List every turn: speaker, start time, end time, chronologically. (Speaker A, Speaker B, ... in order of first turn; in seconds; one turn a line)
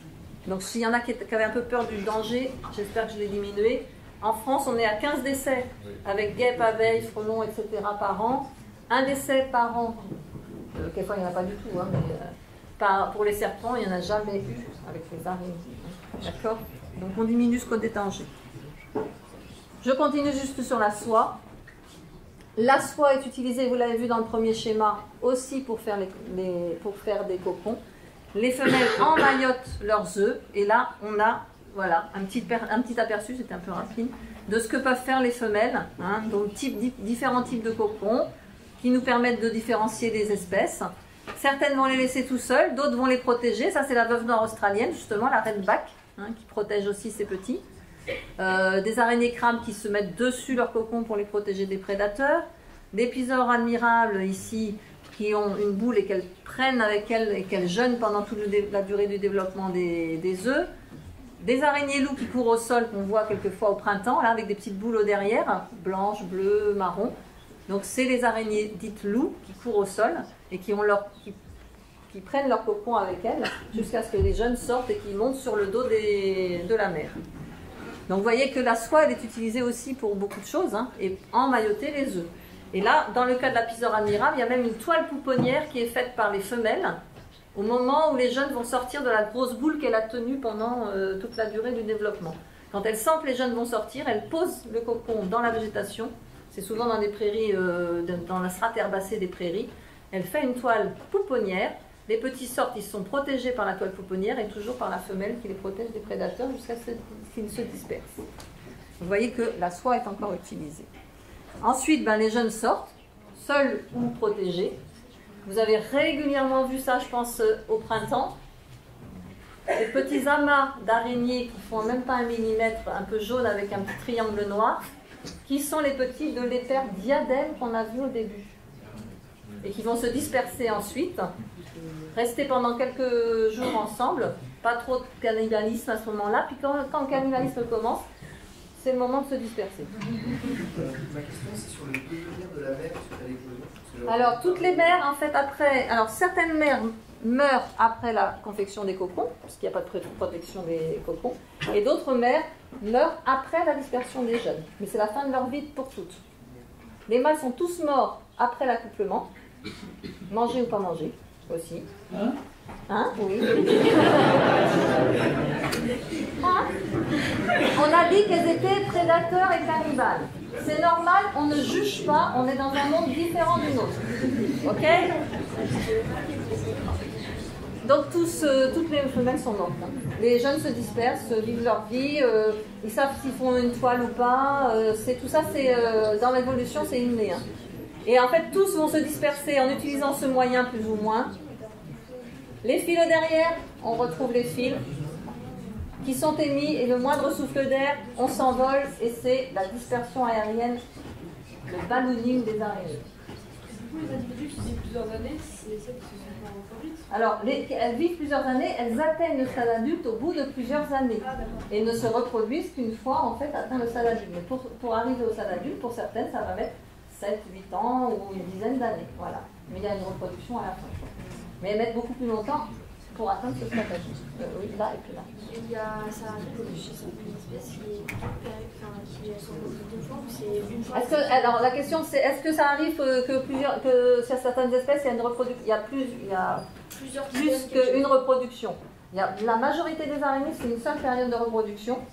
Speaker A: 0.5-10.0
Speaker A: 10.7-18.3
Speaker A: 19.8-21.4
Speaker A: 22.6-27.8
Speaker A: 28.3-38.3
Speaker A: 38.8-47.6
Speaker A: 48.4-60.7
Speaker A: 61.4-67.1
Speaker A: 67.7-71.4
Speaker A: 72.1-77.2
Speaker A: 78.1-87.0
Speaker A: 87.5-108.0
Speaker A: 109.0-110.9
Speaker A: 111.6-114.8
Speaker A: 115.4-118.3
Speaker A: 119.7-124.8
Speaker A: 125.5-128.6
Speaker A: 129.6-131.3
Speaker A: 132.1-138.1
Speaker A: 138.8-139.9
Speaker B: 140.7-144.4
Speaker A: 144.1-156.2
Speaker A: 157.1-159.3
Speaker A: 160.3-161.9
Speaker A: 162.9-163.9
Speaker A: 166.4-166.7
Speaker A: 167.8-174.0
Speaker A: 174.6-175.1
Speaker C: 174.9-177.4
Speaker A: 177.8-187.4
Speaker A: 188.1-191.3
Speaker C: 191.5-192.3
Speaker A: 192.6-194.8
Speaker A: 196.0-200.8
Speaker A: 201.7-203.1
Speaker C: 203.7-207.1
Speaker A: 207.1-225.3
Speaker C: 211.3-211.7
Speaker C: 225.4-231.6
Speaker A: 230.9-236.7
Speaker C: 236.9-238.2
Speaker A: 237.3-242.0